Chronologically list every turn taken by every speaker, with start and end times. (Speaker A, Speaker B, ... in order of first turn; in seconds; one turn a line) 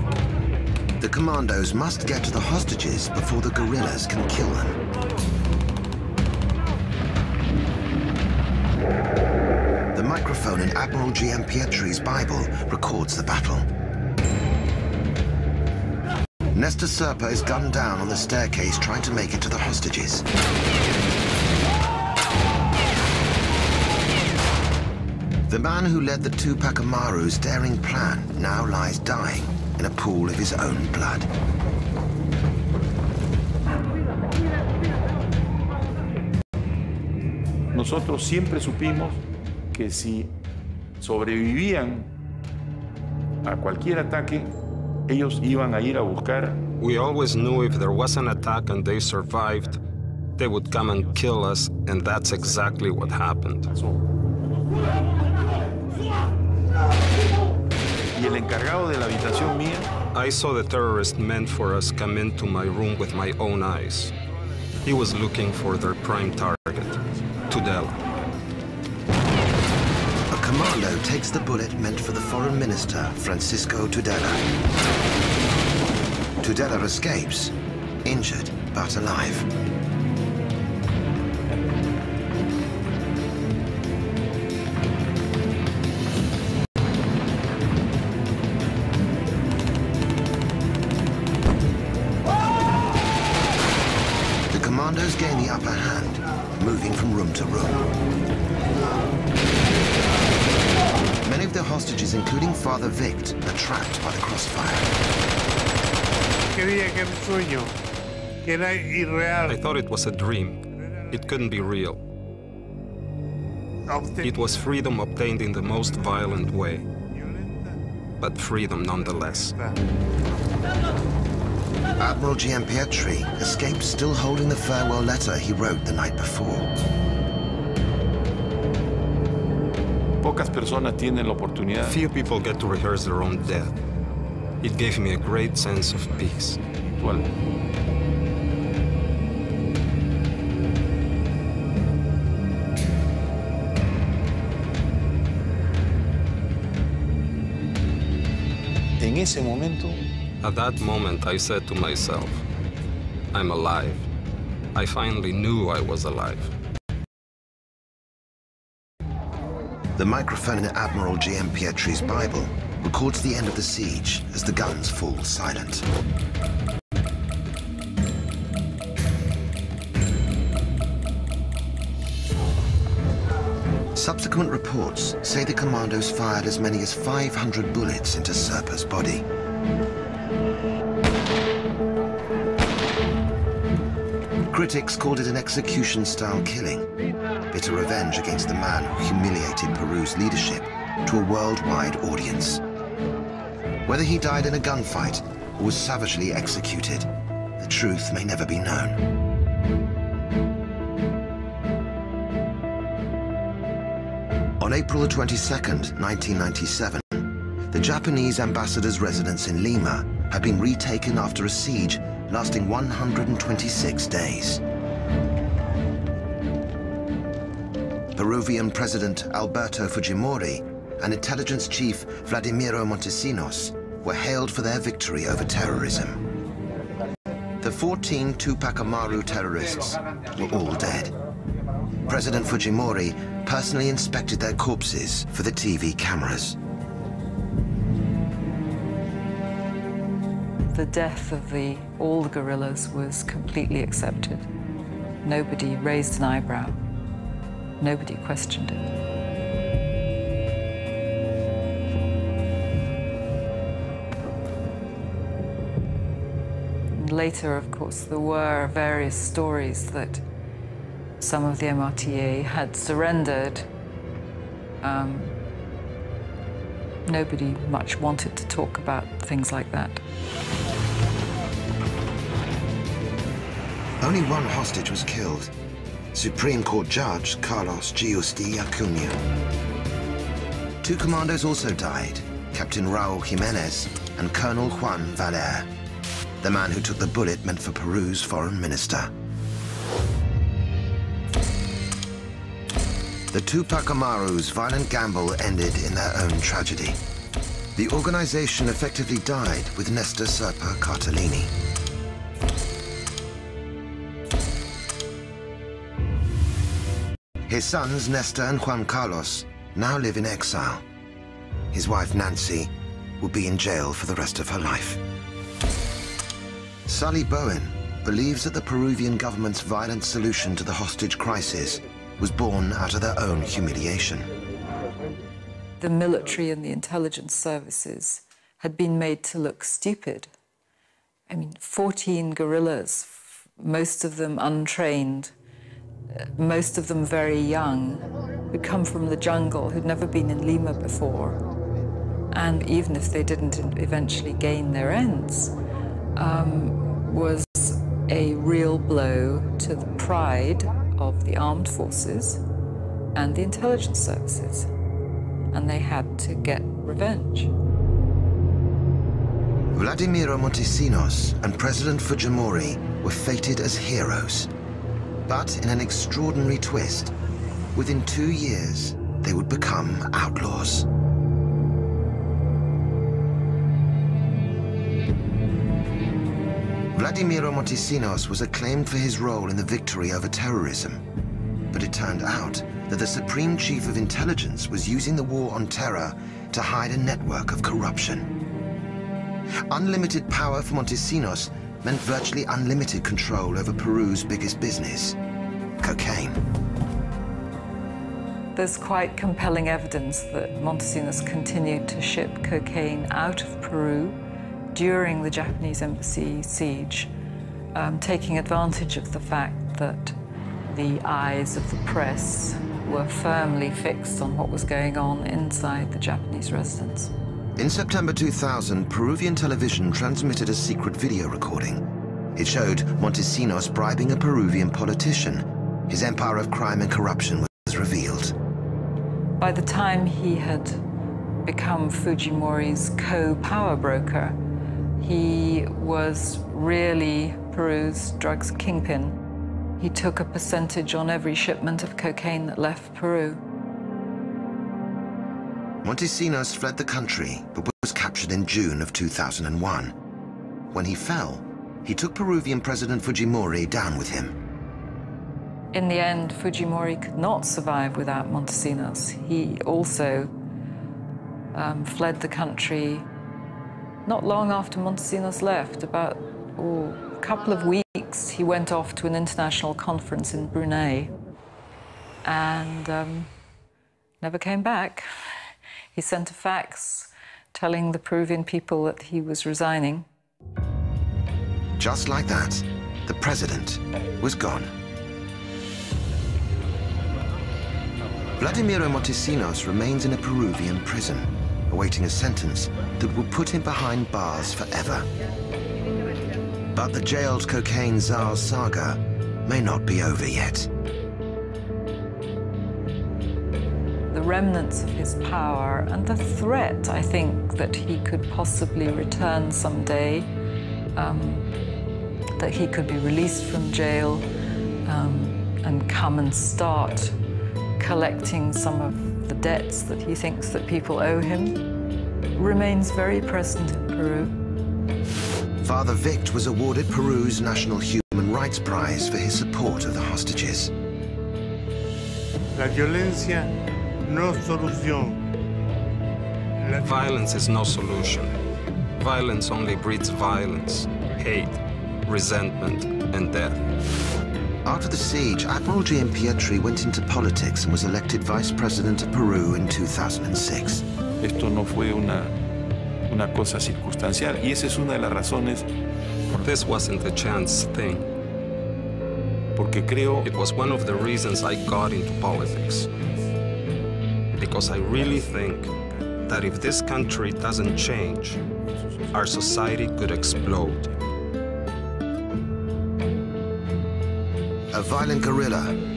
Speaker A: 1.0-4.8
Speaker A: 9.9-13.7
Speaker A: 16.5-20.2
Speaker A: 25.5-31.3
Speaker B: 37.7-39.2
Speaker B: 39.7-40.3
Speaker B: 41.0-42.1
Speaker B: 43.4-44.5
Speaker B: 45.1-46.6
Speaker C: 46.8-49.8
Speaker C: 50.4-53.7
Speaker B: 52.4-52.8
Speaker B: 58.1-59.9
Speaker C: 60.1-64.1
Speaker C: 64.8-68.0
Speaker A: 70.3-74.4
Speaker A: 76.4-79.5
Speaker A: 94.5-97.8
Speaker A: 101.2-104.9
Speaker D: 106.5-107.8
Speaker D: 108.4-109.6
Speaker C: 109.5-112.0
Speaker D: 111.0-111.6
Speaker D: 113.9-114.7
Speaker C: 114.2-116.8
Speaker D: 115.9-116.3
Speaker D: 117.1-117.8
Speaker C: 118.2-119.5
Speaker A: 122.0-126.7
Speaker B: 130.2-132.0
Speaker C: 131.9-133.8
Speaker C: 134.6-136.6
Speaker B: 136.7-137.2
Speaker B: 149.0-150.0
Speaker C: 150.4-152.4
Speaker C: 153.3-154.1
Speaker C: 154.7-156.5
Speaker A: 159.9-165.8
Speaker A: 173.9-179.2
Speaker A: 184.5-186.9
Speaker A: 187.5-192.6
Speaker A: 193.8-199.0
Speaker A: 204.6-214.6
Speaker A: 218.1-226.2
Speaker A: 227.6-231.1
Speaker A: 232.1-236.6
Speaker E: 240.7-244.5
Speaker E: 245.2-246.8
Speaker E: 247.8-248.9
Speaker E: 256.9-260.2
Speaker E: 261.2-263.7
Speaker E: 264.8-265.4
Speaker E: 267.1-270.0
Speaker A: 274.0-275.5
Speaker A: 276.1-279.2
Speaker A: 280.8-285.7
Speaker A: 286.4-289.1
Speaker A: 293.3-297.0
Speaker A: 297.8-301.5
Speaker A: 307.5-310.8
Speaker A: 311.7-315.0
Speaker A: 316.9-324.3
Speaker E: 325.8-330.3
Speaker E: 331.3-335.3
Speaker E: 336.4-341.4
Speaker E: 342.3-345.5
Speaker E: 346.1-352.4
Speaker E: 353.1-354.7
Speaker E: 355.5-357.5
Speaker A: 359.7-364.5
Speaker A: 365.3-367.1
Speaker A: 367.7-370.9
Speaker A: 376.9-381.0
Speaker A: 381.7-388.3
Speaker A: 389.7-395.2
Speaker A: 395.8-396.4
Speaker E: 398.5-404.2
Speaker E: 404.7-407.1
Speaker E: 407.7-410.1
Speaker E: 410.7-417.1
Speaker A: 417.6-421.8
Speaker A: 422.4-428.3
Speaker E: 429.4-430.8
Speaker E: 431.4-434.4
Speaker E: 435.0-439.2
Speaker E: 439.8-443.4
Speaker A: 445.8-449.9
Speaker A: 450.7-454.3
Speaker E: 455.7-460.3
Speaker E: 461.5-463.1
Speaker E: 464.1-471.1
Speaker E: 472.2-473.3
Speaker E: 474.2-475.1
Speaker E: 475.9-480.1
Speaker A: 481.8-484.7
Speaker A: 488.4-495.1
Speaker A: 496.7-500.7
Speaker E: 504.1-510.3
Speaker E: 510.9-511.5
Speaker E: 512.4-514.2
Speaker E: 514.9-517.1
Speaker E: 517.8-521.6
Speaker E: 522.3-524.3
Speaker A: 525.6-530.7
Speaker D: 532.5-533.5
Speaker D: 534.1-535.2
Speaker D: 536.6-537.0
Speaker C: 536.8-538.3
Speaker C: 539.0-543.6
Speaker A: 544.6-550.8
Speaker B: 551.2-552.3
Speaker B: 553.1-555.7
Speaker C: 556.4-558.0
Speaker B: 559.5-560.3
Speaker C: 560.2-562.9
Speaker C: 564.4-565.7
Speaker C: 566.2-568.4
Speaker C: 569.1-570.8
Speaker A: 574.7-575.8